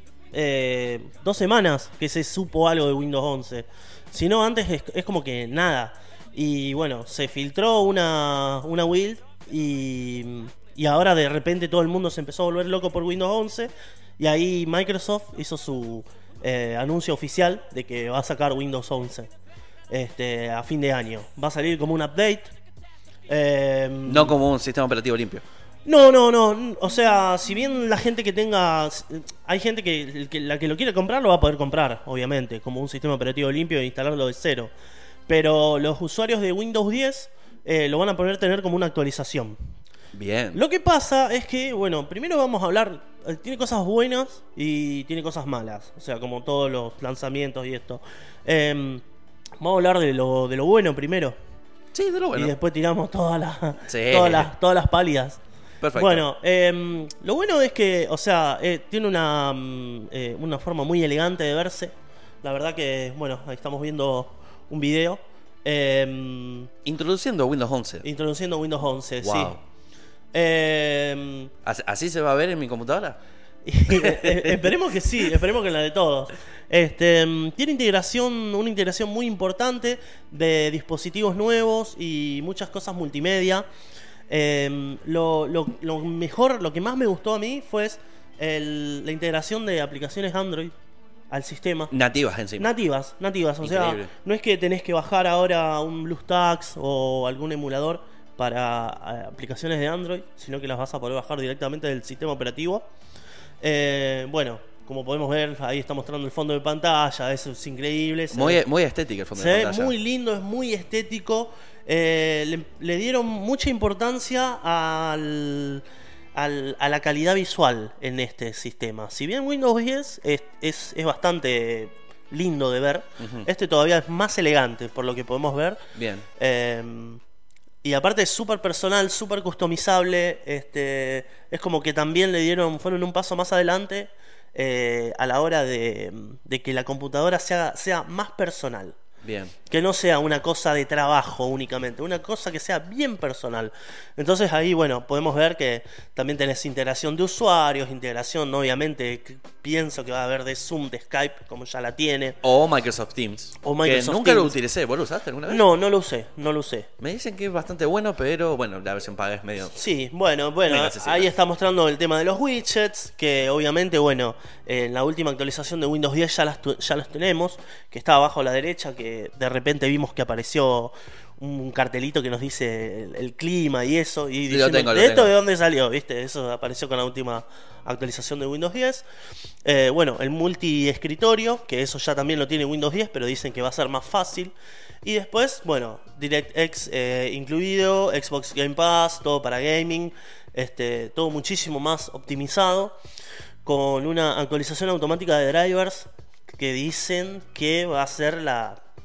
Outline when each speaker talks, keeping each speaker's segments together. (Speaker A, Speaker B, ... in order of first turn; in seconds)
Speaker A: 0.3-19.3, 19.9-22.5, 23.3-24.3, 25.9-34.7, 35.3-39.6, 40.5-49.0, 49.6-51.4, 52.3-55.4, 55.9-66.7, 68.0-69.6, 70.3-71.5, 73.7-83.6, 84.3-90.7, 91.3-91.9, 92.6-102.8, 103.6-108.6, 109.3-115.8, 116.3-125.8, 126.4-127.2, 127.8-139.0, 139.7-152.4, 153.6-154.6, 155.5-156.9, 159.7-179.1, 179.7-192.9, 193.7-198.8
Speaker B: 24.1-25.4, 40.1-40.6, 51.9-52.5, 53.9-54.5, 55.8-56.2, 66.8-68.0, 69.2-69.6, 71.6-73.2, 73.9-74.6, 91.9-92.7, 93.6-94.1, 108.3-109.9, 123.2-123.5, 126.0-126.3, 139.2-139.5, 152.4-155.6, 157.0-159.8, 160.7-161.3, 174.5-175.3